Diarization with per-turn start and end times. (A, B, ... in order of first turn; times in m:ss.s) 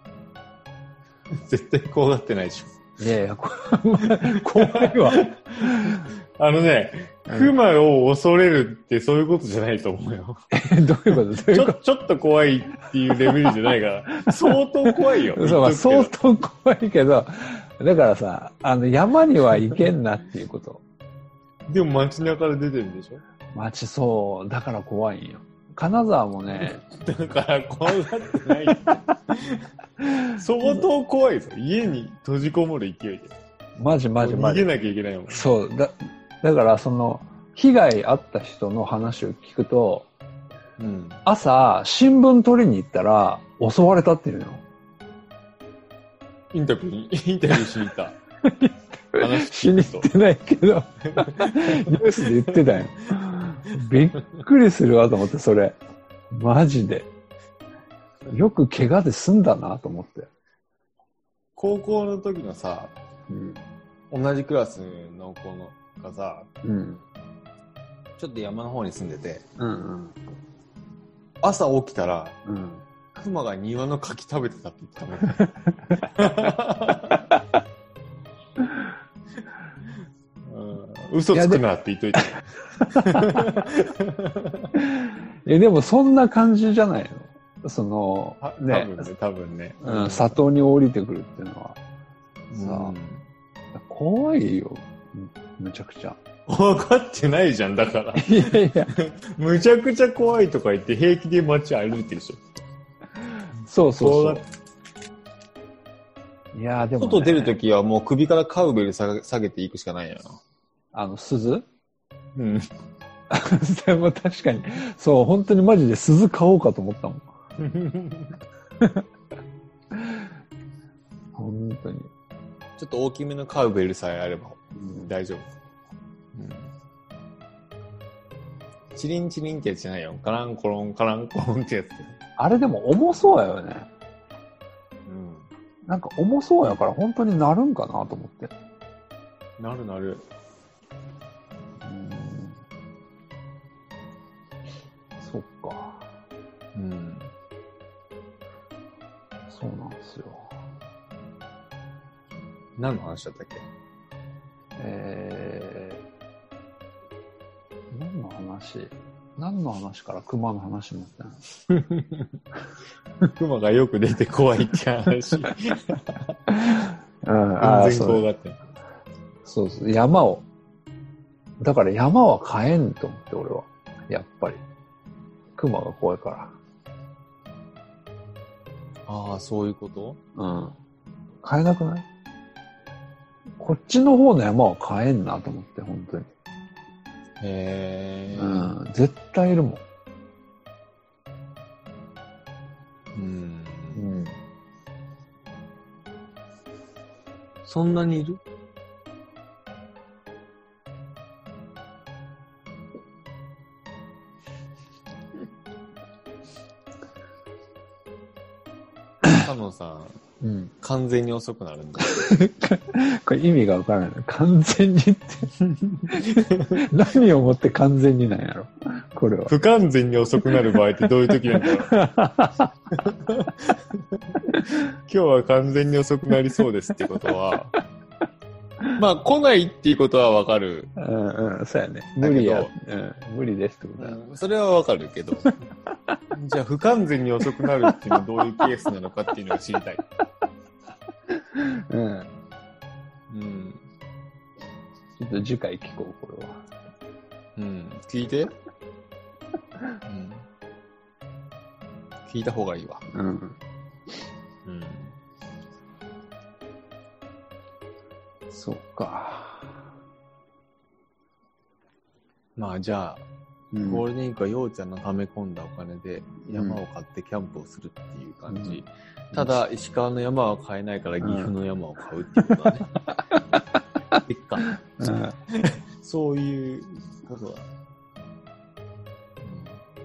0:01.4-0:02.7 A
0:03.0-0:05.9 B
0:04.0-0:10.4 A
0:07.3-0:07.5 B
0:10.5-0:11.8 B
0:11.1-0:16.1 A
0:14.3-0:14.6 B
0:15.3-0:20.8 B
0:21.7-0:23.2 A
0:23.5-0:26.8 B
0:26.6-0:29.6 A
0:30.3-0:33.3 A
0:33.8-0:34.7 B
0:34.2-0:35.5 A
0:35.3-0:40.1 B
0:40.8-0:41.2 A
0:41.3-0:44.6 B
0:46.5-0:48.2 A
0:48.4-0:55.8 B
0:49.2-0:50.1 A
0:51.1-0:52.8 A
0:56.3-0:57.1 B
0:58.3-1:00.3 B
1:01.6-1:03.0 A
1:03.3-1:03.6 B
1:04.1-1:06.5 A
1:06.6-1:07.0 B
1:08.2-1:09.4 A
1:09.6-1:10.2 B
1:11.4-1:12.4 A
1:12.5-1:12.8 B
1:13.1-1:15.5 A
1:16.1-1:17.2 A
1:20.4-1:22.3 A
1:21.3-1:21.6 B
1:22.8-1:23.5 B
1:22.8-1:24.8 A
1:24.8-1:29.1 B
1:28.4-1:30.4 A
1:29.8-1:31.8 B
1:32.5-1:33.3 A
1:32.6-1:33.0 B
1:33.7-1:36.2 B
1:36.5-1:42.4 A
1:38.2-1:38.9 B
1:43.3-1:44.4 B
1:43.9-1:44.4 A
1:46.5-1:47.6 B
1:47.0-1:50.4 A
1:50.9-1:51.7 B
1:52.4-1:52.7 A
1:53.3-1:57.3 B
1:57.6-1:58.4 A
1:58.8-1:59.0 B
1:59.9-2:00.3 B
2:01.4-2:02.1 B
2:02.8-2:05.5 A
2:04.8-2:05.1 B
2:06.4-2:06.7 A
2:09.0-2:12.2 A
2:12.4-2:13.9 B
2:15.1-2:15.5 A
2:15.9-2:18.5 B
2:16.6-2:16.9 A
2:19.6-2:20.2 A
2:21.8-2:22.6 B
2:25.2-2:26.0 B
2:26.8-2:27.3 A
2:29.5-2:30.5 B
2:32.8-2:33.7 A
2:34.8-2:36.0 B
2:37.9-2:41.4 B
2:41.7-2:42.3 A
2:43.4-2:46.7 A
2:46.7-2:48.2 B
2:47.6-2:48.6 A
2:49.4-2:50.4 B
2:51.6-2:54.6 B
2:55.6-2:56.6 B
2:59.1-3:00.2 A
3:00.4-3:00.8 B
3:01.4-3:02.1 B
3:03.6-3:06.3 B
3:07.4-3:08.8 A
3:08.4-3:09.8 B
3:13.2-3:14.1 A
3:14.0-3:14.4 B
3:17.6-3:18.4 A
3:29.3-3:30.2 A
3:30.4-3:30.7 B
3:30.8-3:32.3 A
3:32.1-3:35.5 B
3:35.7-3:36.9 A
3:36.1-3:39.5 B
3:39.5-3:41.9 A
3:41.3-3:42.7 B
3:42.9-3:47.8 A
3:49.0-3:50.9 A
3:51.0-3:54.2 B
3:52.2-3:52.7 A
3:54.0-3:55.6 A
3:56.3-4:00.0 A
3:57.6-3:58.2 B
4:01.3-4:02.3 B
4:03.3-4:03.9 A
4:05.2-4:06.6 B
4:07.6-4:08.5 A
4:10.0-4:10.5 A
4:12.3-4:13.1 A
4:13.1-4:13.6 B
4:14.6-4:15.2 A
4:18.5-4:19.9 B
4:22.6-4:23.2 A
4:23.7-4:24.0 B
4:23.8-4:32.9 A
4:26.5-4:26.8 B
4:28.5-4:28.8 B
4:29.3-4:29.6 B
4:31.2-4:31.5 B
4:33.1-4:33.4 B
4:34.2-4:37.7 A
4:35.0-4:35.4 B
4:39.4-4:39.8 A